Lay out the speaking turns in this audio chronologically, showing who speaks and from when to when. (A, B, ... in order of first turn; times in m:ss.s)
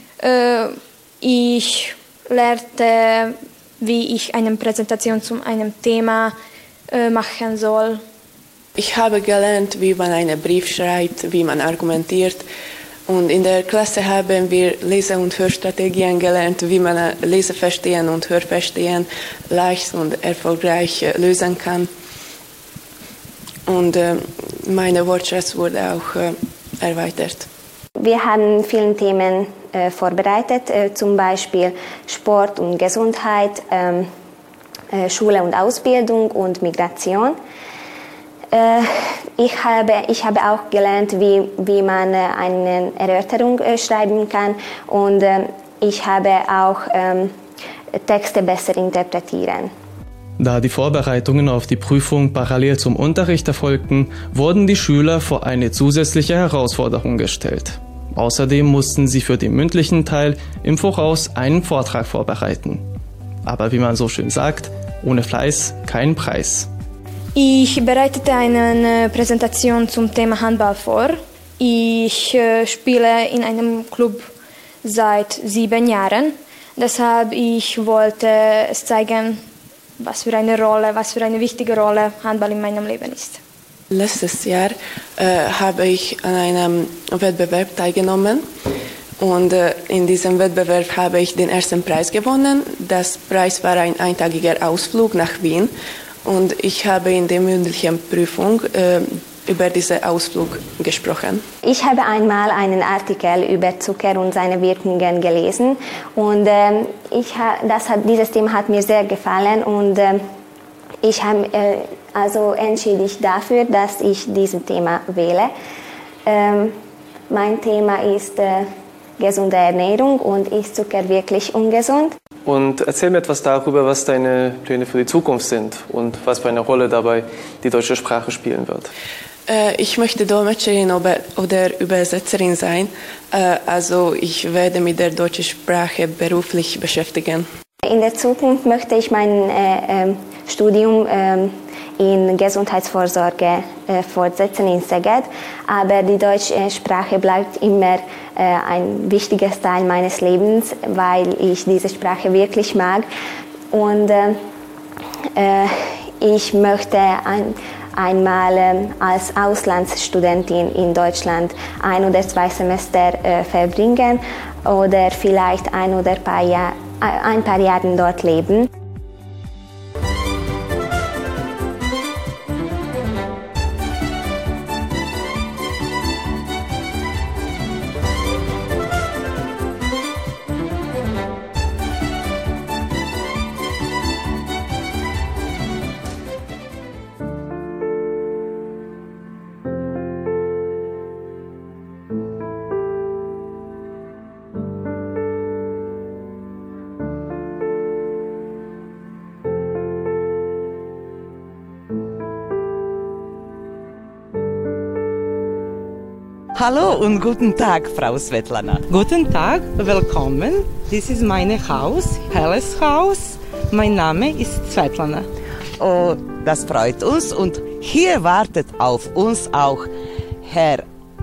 0:00.2-0:06.4 A
0:06.9-0:08.0 A
0:08.8-0:12.5 B
0:13.1-0:21.9 B
0:23.7-0:27.5 B
0:28.0-0:34.1 C
0:34.9-0:37.4 C
0:38.5-0:47.3 C
0:47.9-0:49.7 C
0:50.4-1:02.8 D
1:03.5-1:06.7 D
1:07.4-1:14.3 A
1:14.8-1:19.4 A
1:20.0-1:23.4 A
1:23.9-1:28.5 B
1:29.2-1:35.7 B
1:36.2-1:41.4 B
1:41.6-1:50.2 C
1:51.0-1:55.5 C
1:56.3-1:56.8 C
1:57.3-2:02.2 C
2:02.5-2:08.9 D
2:09.5-2:17.5 B
2:17.8-2:33.1 C
2:33.7-2:34.4 C
2:35.4-2:48.7 C
3:26.5-3:28.8 E
3:28.9-3:35.3 F
3:35.8-3:39.9 E
3:40.4-3:40.9 E